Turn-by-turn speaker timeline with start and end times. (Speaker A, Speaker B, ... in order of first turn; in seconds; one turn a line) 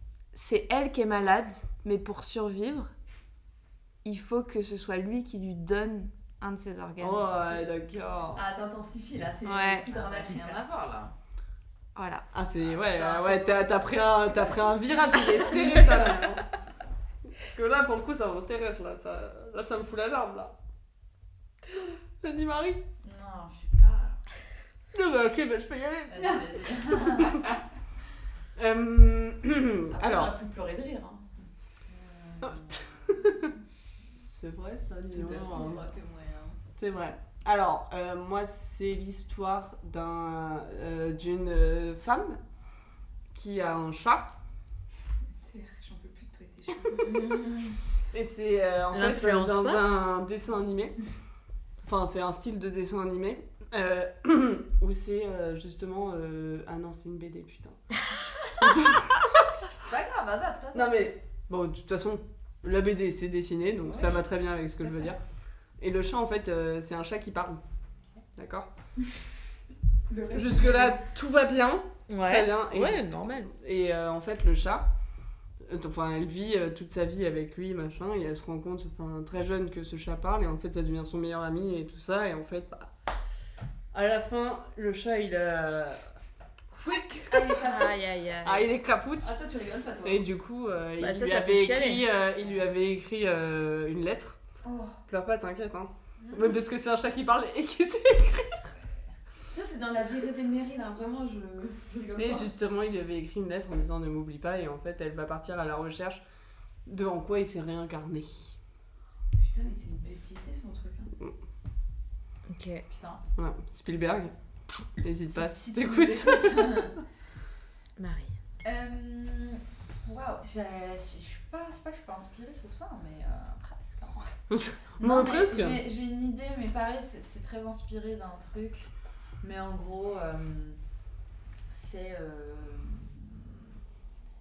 Speaker A: 0.3-2.9
Speaker A: 4.0-7.3
Speaker B: 7.0-8.4
Speaker C: 8.3-10.6
Speaker A: 9.4-9.8
Speaker D: 9.9-11.1
Speaker A: 11.9-12.3
Speaker B: 12.3-16.4
Speaker D: 12.6-15.4
Speaker C: 15.5-15.8
Speaker B: 17.3-20.5
Speaker B: 21.8-22.8
Speaker D: 23.0-24.2
Speaker B: 24.9-26.4
Speaker D: 26.1-27.4
Speaker C: 27.2-27.5
Speaker B: 28.6-30.4
Speaker C: 29.9-31.3
Speaker D: 31.9-33.3
Speaker B: 32.4-33.5
Speaker B: 34.2-35.8
Speaker C: 35.1-35.9
Speaker D: 35.2-36.6
Speaker B: 36.8-42.4
Speaker B: 43.3-44.3
Speaker C: 45.4-47.4
Speaker D: 47.0-47.8
Speaker B: 48.1-51.0
Speaker A: 48.9-49.8
Speaker B: 51.8-57.8
Speaker B: 58.6-59.6
Speaker D: 59.6-61.1
Speaker B: 60.7-65.2
Speaker D: 63.9-64.2
Speaker B: 65.8-67.6
Speaker B: 68.4-68.7
Speaker C: 70.1-71.0
Speaker B: 70.3-74.9
Speaker A: 72.1-73.5
Speaker B: 75.6-82.9
Speaker B: 83.9-86.0
Speaker B: 86.8-87.3
Speaker C: 87.3-88.1
Speaker A: 87.5-88.7
Speaker B: 88.4-89.4
Speaker C: 89.2-90.2
Speaker B: 90.0-94.4
Speaker A: 91.0-92.0
Speaker C: 94.6-95.0
Speaker B: 95.1-98.7
Speaker D: 96.2-96.6
Speaker C: 99.5-102.5
Speaker B: 102.2-106.2
Speaker B: 106.8-108.6
Speaker C: 109.4-111.1
Speaker A: 112.5-112.8
Speaker D: 112.9-113.2
Speaker B: 113.4-114.3
Speaker B: 114.9-116.9
Speaker D: 115.3-117.0
Speaker A: 118.0-118.3
Speaker D: 118.6-124.3
Speaker B: 124.5-125.8
Speaker D: 125.0-128.9
Speaker D: 129.4-130.8
Speaker D: 131.7-133.6